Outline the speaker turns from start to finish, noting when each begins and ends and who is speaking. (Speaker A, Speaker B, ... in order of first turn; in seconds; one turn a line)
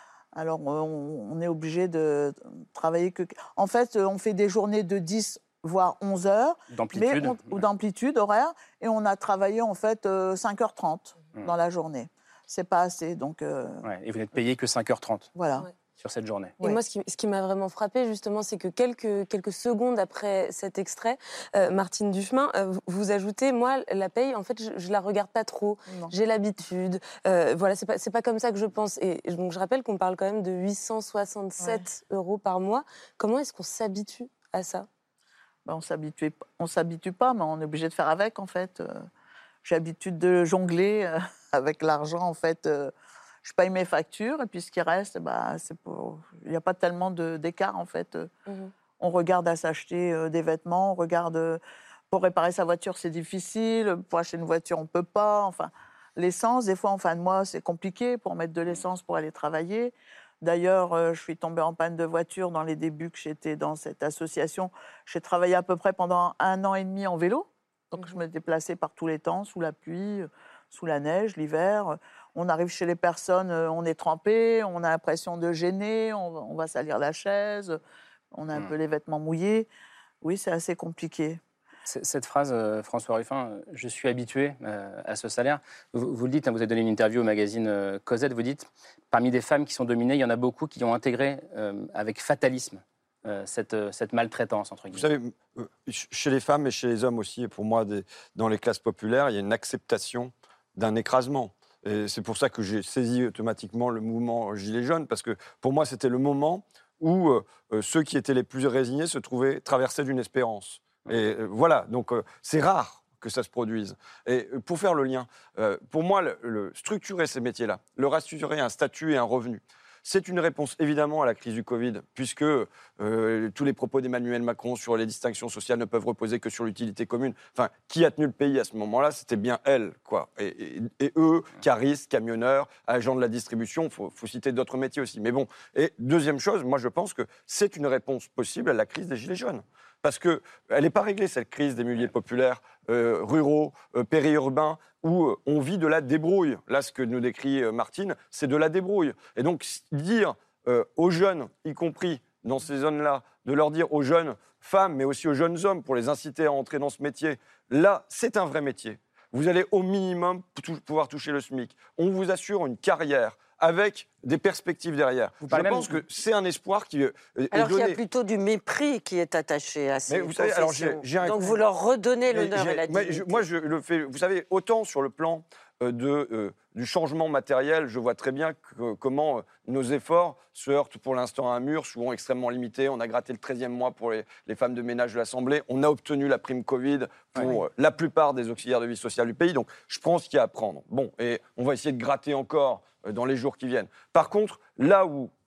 Speaker A: 0.3-13.8
Speaker B: 6.7-7.7
Speaker B: 13.8-15.3
Speaker A: 15.3-15.7
Speaker B: 16.0-16.5
Speaker C: 16.6-34.9
Speaker A: 35.6-39.1
Speaker A: 39.6-42.9
Speaker A: 43.4-48.3
Speaker A: 49.0-77.8
Speaker A: 78.3-79.7
Speaker A: 80.2-81.4
Speaker B: 81.9-95.1
Speaker D: 94.9-168.0
Speaker B: 165.4-166.0
Speaker E: 167.5-173.4
Speaker D: 170.1-171.5
Speaker D: 172.3-195.3